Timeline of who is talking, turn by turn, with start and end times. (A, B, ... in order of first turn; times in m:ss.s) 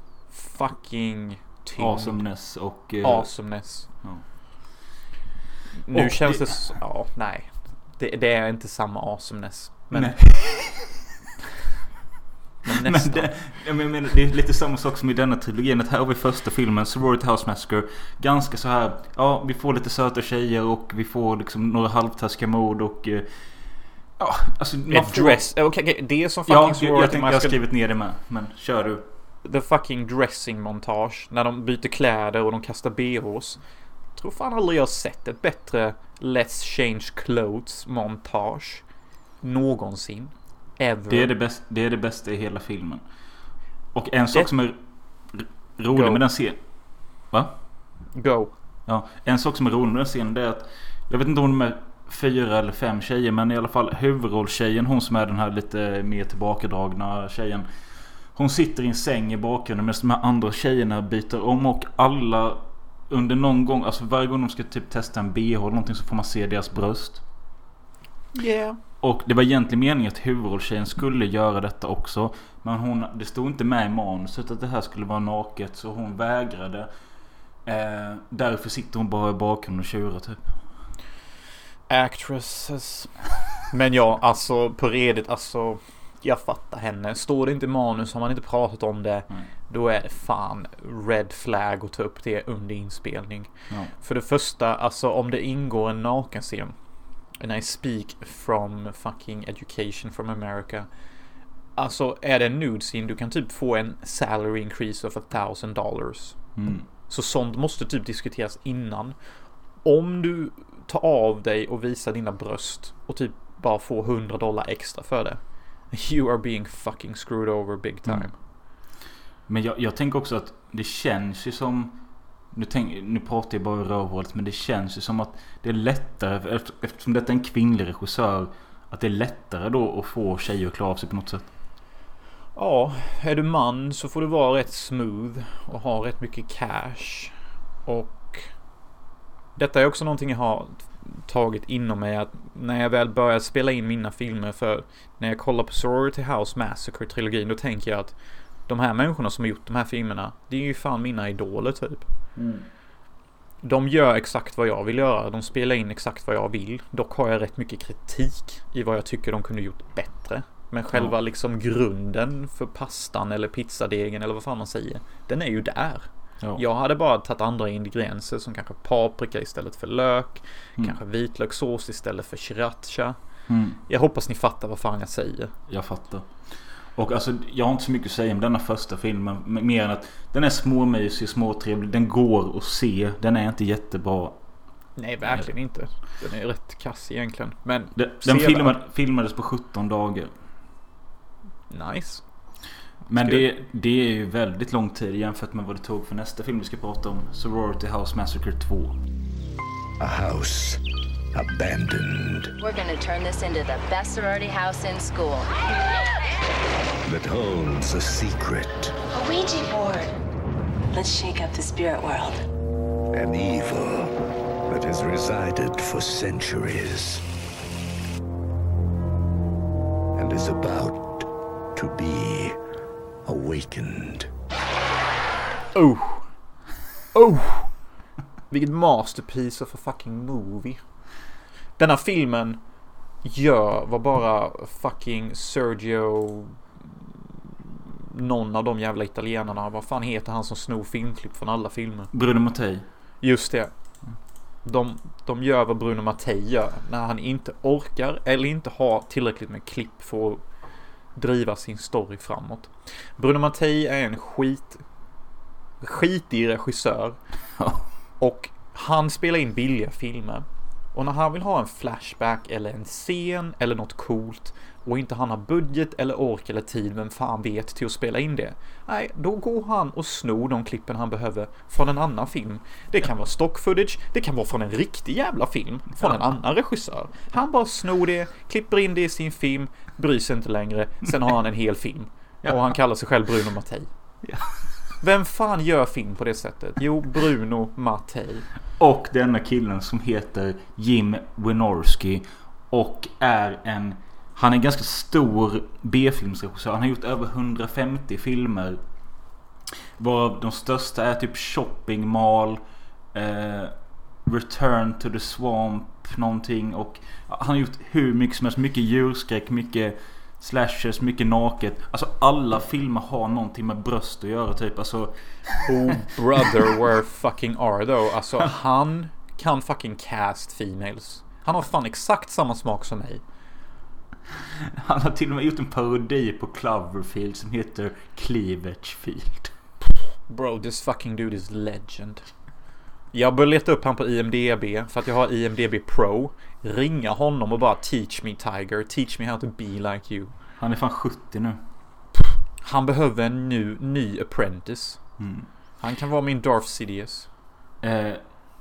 0:00.3-0:02.3 A
0:01.8-0:04.2 B
0:03.0-0:03.9 A
0:05.8-0:10.2 A
0:05.9-0:06.8 B
0:09.9-0:11.0 B
0:12.6-0:13.6 A
0:12.7-0:23.3 B
0:24.2-0:25.4 B
0:24.9-0:27.6 A
0:26.5-0:29.0 B
0:29.4-0:33.6 A
0:34.2-0:38.8 A
0:39.4-0:41.3 A
0:41.1-0:43.0 B
0:43.9-0:47.6 B
0:45.9-0:46.2 A
0:48.1-0:48.5 A
0:48.9-0:57.7 B
0:58.3-1:07.2 B
1:08.3-1:08.8 A
1:09.0-1:16.9 B
1:17.6-1:20.6 B
1:21.9-1:23.2 A
1:23.7-1:36.8 A
1:37.4-1:40.9 A
1:41.8-1:49.2 A
1:46.6-1:46.9 B
1:49.8-1:58.4 A
1:59.5-2:02.0 B
2:02.5-2:11.5 B
2:12.6-2:17.3 A
2:17.8-2:18.5 A
2:19.6-2:28.1 A
2:28.7-2:32.1 A
2:32.4-2:32.7 B
2:33.6-2:53.2 A
2:53.5-2:53.8 B
2:53.8-2:55.5 A
2:55.7-3:04.4 B
3:05.0-3:08.8 A
3:08.0-3:10.3 B
3:11.7-3:12.2 A
3:13.1-3:19.0 B
3:13.1-3:13.5 A
3:20.0-3:22.5 C
3:22.6-3:25.5 D
3:27.0-3:28.9 C
3:29.2-3:30.1 E
3:30.9-3:32.4 E
3:33.1-3:34.1 C
3:34.7-3:37.2 C
3:40.2-3:42.6 C
3:43.2-3:44.3 C
3:45.7-3:46.3 A
3:47.1-3:47.8 A
3:48.5-3:50.8 A
3:51.8-3:52.6 A
3:53.2-4:02.1 A
4:02.1-4:02.8 B
4:03.2-4:03.7 A
4:04.6-4:10.4 A
4:11.2-4:14.8 A
4:15.8-4:17.2 A
4:17.6-4:17.9 B
4:18.2-4:43.9 A
4:44.2-4:44.6 B
4:45.0-4:48.5 A
4:48.8-4:58.8 B
5:00.0-5:02.6 B
5:03.1-5:15.6 B
5:15.6-5:23.2 A
5:24.8-5:29.5 B
5:30.3-5:32.3 A
5:33.1-5:40.3 A
5:40.6-5:41.6 B
5:42.6-5:45.1 A
5:45.2-5:45.5 B
5:45.8-5:47.3 A
5:47.8-5:48.4 B